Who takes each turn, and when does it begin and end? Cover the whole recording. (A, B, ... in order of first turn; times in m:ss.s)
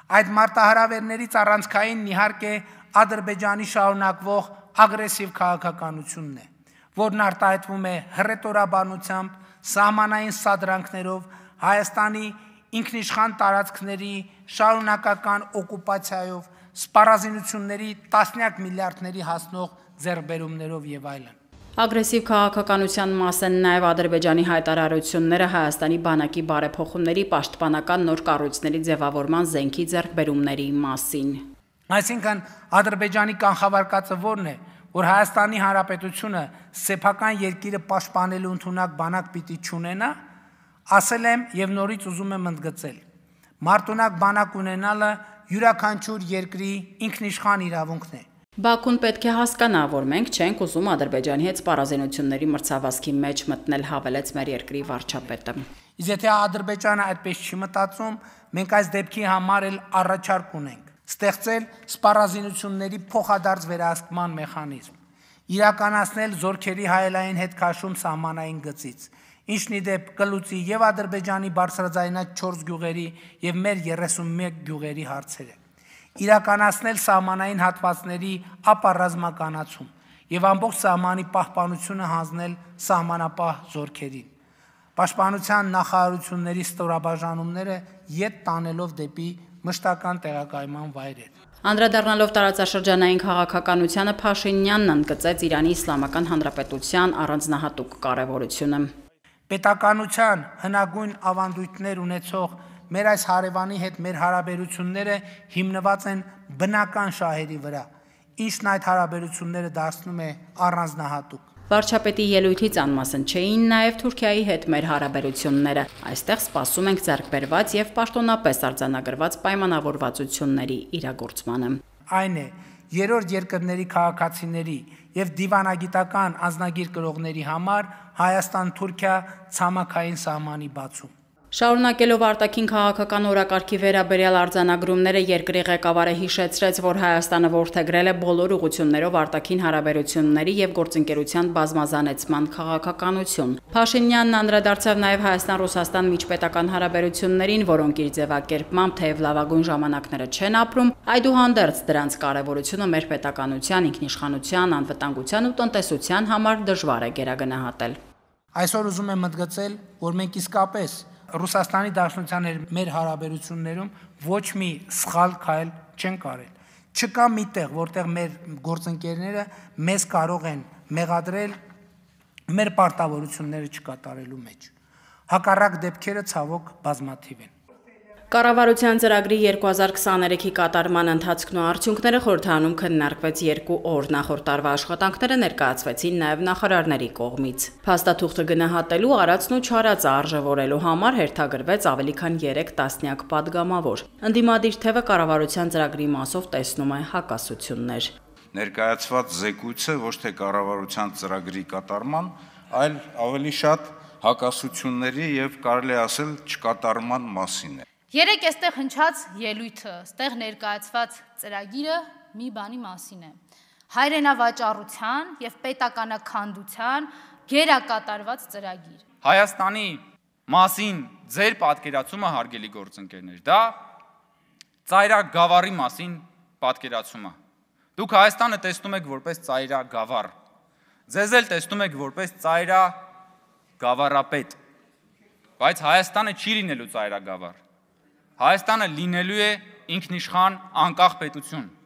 0:00.1-0:21.3 A
0:21.8-0:31.5 B
0:31.9-0:40.2 A
0:40.9-0:43.0 A
0:43.6-0:48.2 A
0:48.6-0:55.6 B
0:56.0-1:04.9 A
1:05.5-1:15.6 A
1:16.2-1:24.3 A
1:25.0-1:31.3 A
1:31.6-1:38.9 B
1:39.5-1:51.4 A
1:51.7-2:01.8 B
2:02.1-2:11.1 A
2:11.5-2:38.0 B
2:38.5-2:51.6 A
2:52.5-2:54.7 A
2:55.3-2:57.5 A
2:58.3-3:18.1 B
3:18.5-3:27.8 C
3:28.1-3:33.4 D
3:33.9-3:39.0 D
3:39.2-3:43.8 E
3:44.8-3:47.4 E
3:48.0-3:50.3 E
3:51.1-3:53.0 E
3:53.8-3:54.6 E
3:55.6-3:57.6 E
3:58.4-4:01.7 E